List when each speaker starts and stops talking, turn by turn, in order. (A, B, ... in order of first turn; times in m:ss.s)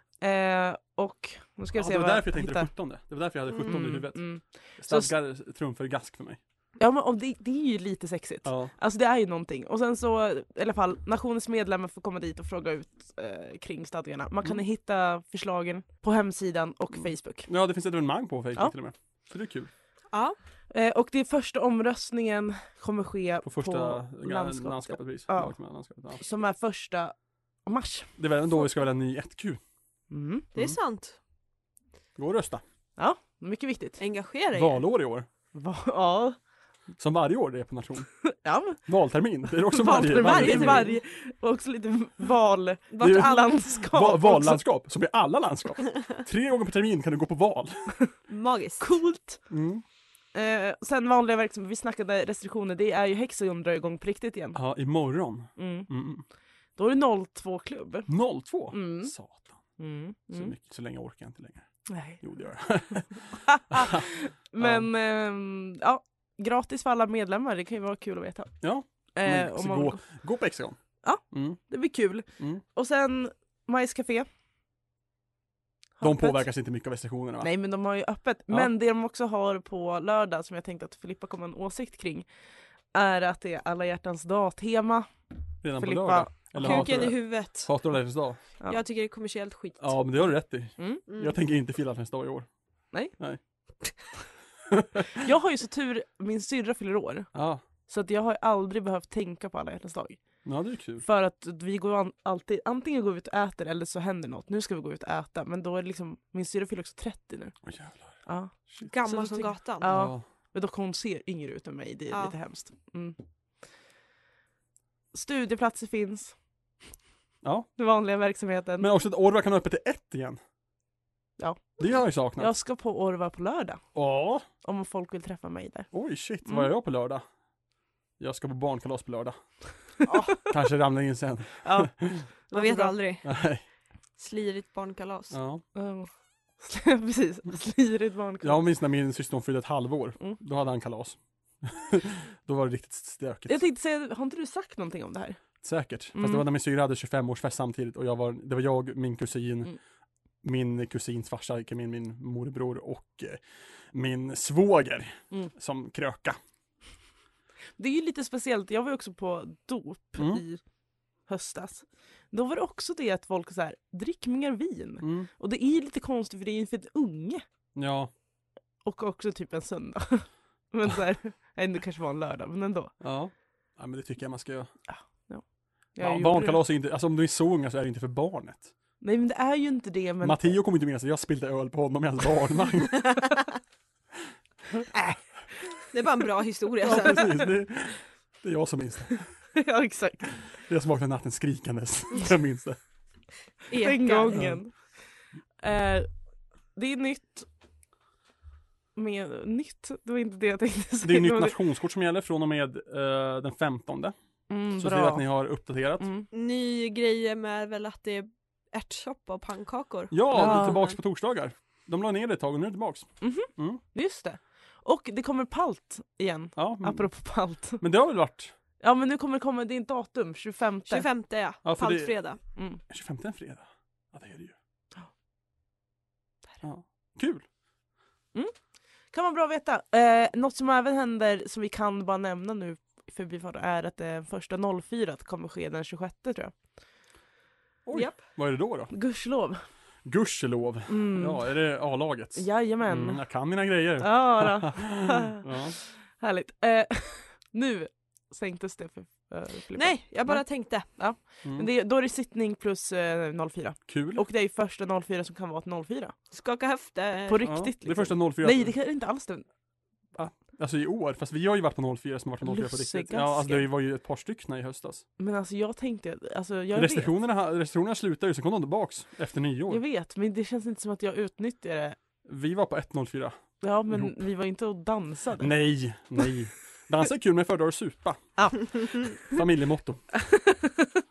0:00.2-0:02.7 A
0:01.7-0:06.4 B
0:03.7-0:05.1 A
0:06.8-0:17.5 A
0:08.4-0:08.7 B
0:17.5-0:19.7 B
0:20.7-0:25.6 A
0:23.4-0:26.2 B
0:26.2-0:27.2 A
0:27.7-0:28.1 A
0:28.2-0:29.6 B
0:30.1-0:30.5 A
0:30.6-0:31.2 C
0:32.2-0:32.6 B
0:33.0-0:34.0 A
0:34.0-0:34.8 C
0:34.5-0:35.3 B
0:35.5-0:36.4 A
0:37.0-0:38.1 B
0:38.3-0:38.8 A
0:38.9-0:40.9 B
0:39.7-0:44.6 A
0:40.1-0:41.0 C
0:42.9-0:43.7 C
0:43.0-0:47.9 B
0:48.3-0:48.8 C
0:48.8-0:49.4 A
0:49.5-0:49.8 B
0:50.3-0:54.6 A
0:54.5-0:56.2 B
0:55.6-0:55.9 A
0:56.8-0:58.1 A
0:58.1-0:59.6 B
0:58.7-0:59.1 A
0:59.8-1:00.5 A
1:00.3-1:04.0 B
1:01.9-1:02.2 A
1:03.3-1:08.5 A
1:04.6-1:04.9 B
1:08.6-1:11.6 B
1:09.1-1:10.0 A
1:11.0-1:14.3 A
1:12.4-1:12.6 B
1:16.0-1:16.5 A
1:16.0-1:17.5 B
1:17.4-1:22.3 A
1:22.9-1:25.1 A
1:25.6-1:28.4 B
1:25.7-1:27.1 A
1:26.6-1:27.7 C
1:28.7-1:30.2 C
1:29.8-1:32.5 B
1:30.8-1:31.0 A
1:31.1-1:31.4 C
1:33.1-1:33.4 B
1:34.7-1:35.1 B
1:35.2-1:37.3 A
1:37.3-1:37.6 B
1:37.9-1:40.4 A
1:40.4-1:41.1 B
1:41.0-1:47.6 A
1:47.6-1:48.9 B
1:48.3-1:53.2 A
1:48.8-1:49.9 C
1:49.8-1:50.2 B
1:52.1-1:52.4 C
1:55.1-1:56.4 A
1:57.4-1:57.7 B
1:57.8-1:58.9 A
1:58.8-2:00.4 B
2:01.4-2:01.8 A
2:01.8-2:02.5 B
2:02.3-2:03.8 A
2:04.0-2:04.4 B
2:04.6-2:05.9 A
2:05.9-2:07.2 B
2:06.4-2:06.7 A
2:08.2-2:09.4 B
2:10.1-2:10.4 A
2:10.5-2:12.3 B
2:11.6-2:13.0 A
2:12.5-2:13.3 C
2:13.2-2:13.6 B
2:14.2-2:15.4 C
2:15.3-2:15.6 B
2:15.8-2:18.7 A
2:18.4-2:23.6 B
2:23.5-2:25.4 A
2:25.6-2:29.7 B
2:26.2-2:26.4 A
2:30.4-2:36.4 B
2:37.8-2:40.6 A
2:40.2-2:40.4 B
2:41.3-2:47.4 A
2:45.0-2:45.3 B
2:47.8-2:48.1 B
2:48.8-2:52.9 A
2:53.0-2:54.7 B
2:54.9-2:56.6 A
2:56.0-2:58.7 B
2:59.0-3:00.6 A
3:00.2-3:03.2 B
3:05.9-3:07.4 C
3:06.8-3:09.5 B
3:09.6-3:10.4 A
3:10.6-3:12.8 B
3:13.7-3:14.6 C
3:13.8-3:15.1 A
3:14.3-3:14.6 B
3:15.6-3:16.1 A
3:16.8-3:17.5 A
3:19.0-3:21.6 A
3:21.0-3:24.2 B
3:24.5-3:25.3 A
3:24.8-3:26.1 B
3:26.0-3:26.3 A
3:26.3-3:31.0 C
3:30.1-3:33.8 B
3:30.4-3:30.8 A
3:33.2-3:37.8 A
3:36.6-3:37.1 B
3:37.6-3:38.6 B
3:38.8-3:41.1 A
3:40.9-3:42.4 C
3:41.6-3:42.2 B
3:42.6-3:42.8 A
3:42.9-3:44.6 B
3:46.6-3:47.5 B
3:49.1-3:56.6 A
3:57.9-3:58.9 B
3:57.9-3:58.2 C
3:58.9-3:59.6 A
4:00.0-4:05.8 B
4:00.9-4:01.5 A
4:02.4-4:03.3 A
4:04.0-4:05.4 A
4:06.0-4:16.2 A
4:09.7-4:11.0 C
4:11.4-4:11.7 B
4:13.9-4:14.2 B
4:16.3-4:17.6 C
4:17.3-4:19.4 A
4:17.4-4:18.8 B
4:20.2-4:25.1 B
4:22.4-4:23.7 A
4:25.2-4:27.2 A
4:26.7-4:29.8 B
4:29.7-4:32.0 A
4:32.2-4:33.4 B
4:33.6-4:35.5 A
4:33.9-4:34.1 B
4:35.4-4:40.1 B
4:38.4-4:39.2 A
4:40.2-4:41.0 A